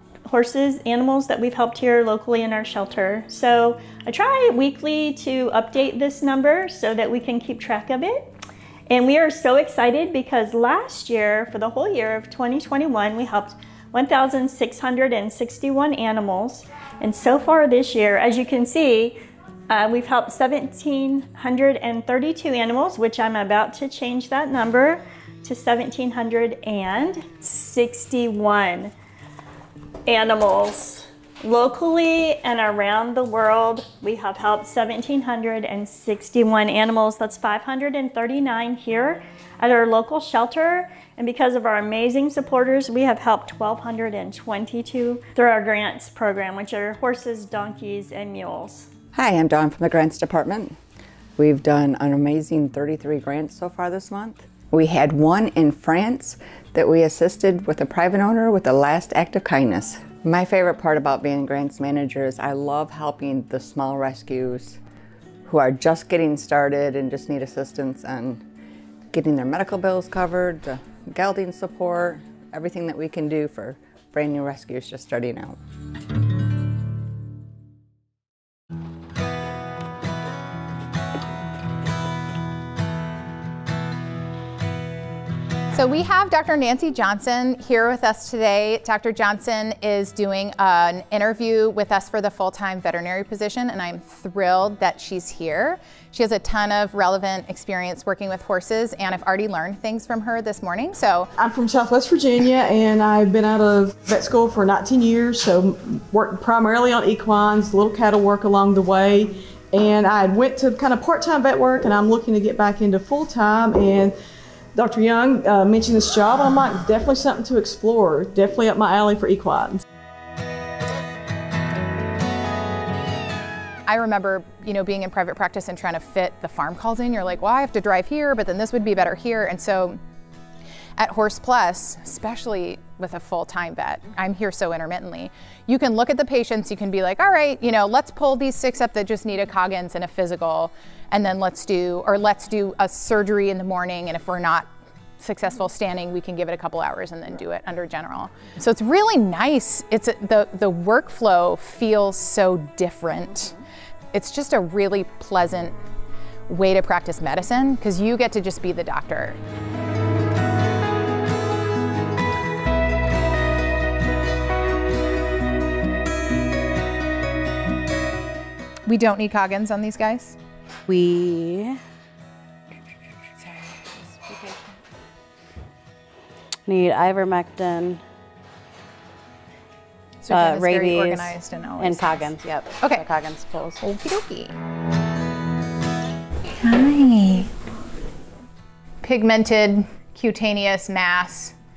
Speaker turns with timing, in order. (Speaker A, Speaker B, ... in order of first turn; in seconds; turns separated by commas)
Speaker A: 0.3-8.3, Speaker A: 8.9-19.2, Speaker A: 19.7-28.9, Speaker A: 30.1-48.9, Speaker B: 49.1-50.8, Speaker B: 51.4-64.8, Speaker B: 65.4-68.4, Speaker B: 69.1-75.6, Speaker C: 85.7-101.3, Speaker D: 101.4-114.1, Speaker D: 114.7-119.8, Speaker C: 123.9-130.0, Speaker C: 131.0-153.5, Speaker C: 154.1-155.8, Speaker C: 156.5-159.4, Speaker C: 168.8-170.4, Speaker E: 170.9-171.8, Speaker E: 176.7-178.0, Speaker C: 180.2-183.1, Speaker E: 180.3-183.8, Speaker C: 183.8-184.5, Speaker C: 186.6-187.5, Speaker C: 189.0-191.5